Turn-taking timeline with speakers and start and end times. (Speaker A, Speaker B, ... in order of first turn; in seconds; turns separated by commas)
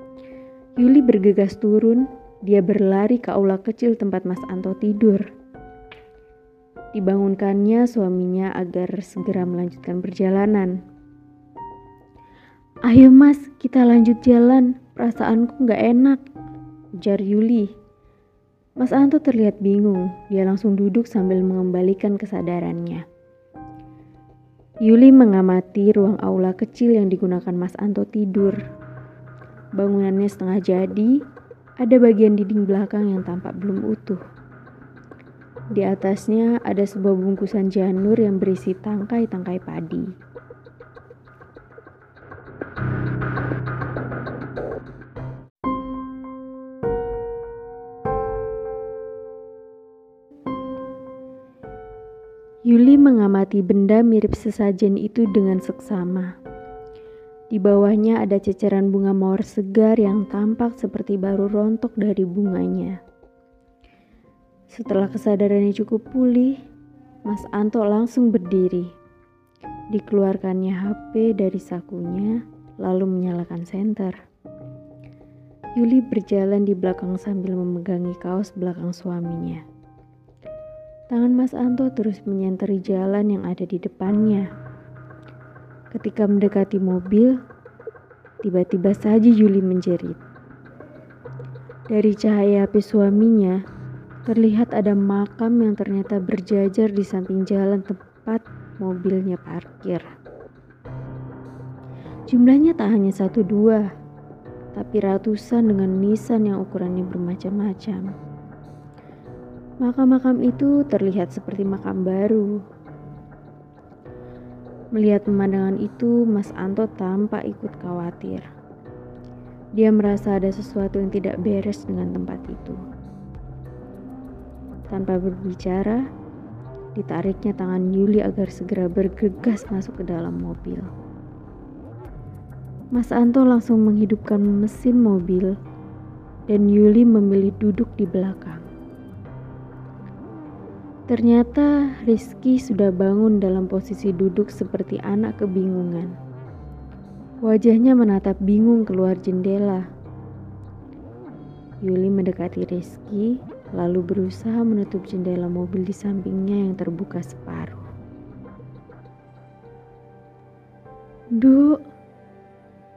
Speaker A: 0.8-5.2, Speaker A: 6.9-10.8, Speaker A: 12.8-16.2, Speaker A: 17.0-17.7, Speaker A: 18.8-23.1, Speaker A: 24.9-28.6, Speaker A: 29.8-31.1, Speaker A: 31.8-34.2, Speaker A: 35.8-40.1, Speaker A: 52.7-56.3, Speaker A: 57.5-63.0, Speaker A: 64.7-66.6, Speaker A: 67.2-68.9, Speaker A: 69.9-74.1, Speaker A: 75.8-79.6, Speaker A: 81.1-84.5, Speaker A: 85.9-87.4, Speaker A: 88.4-90.2, Speaker A: 91.9-93.6, Speaker A: 94.2-100.1, Speaker A: 102.3-103.9, Speaker A: 104.7-108.1, Speaker A: 109.8-112.6, Speaker A: 114.9-118.5, Speaker A: 119.8-122.8, Speaker A: 124.9-126.0, Speaker A: 127.0-130.9, Speaker A: 132.9-135.6, Speaker A: 136.5-138.7, Speaker A: 141.1-146.1, Speaker A: 147.4-149.8, Speaker A: 151.8-157.8, Speaker A: 161.4-161.8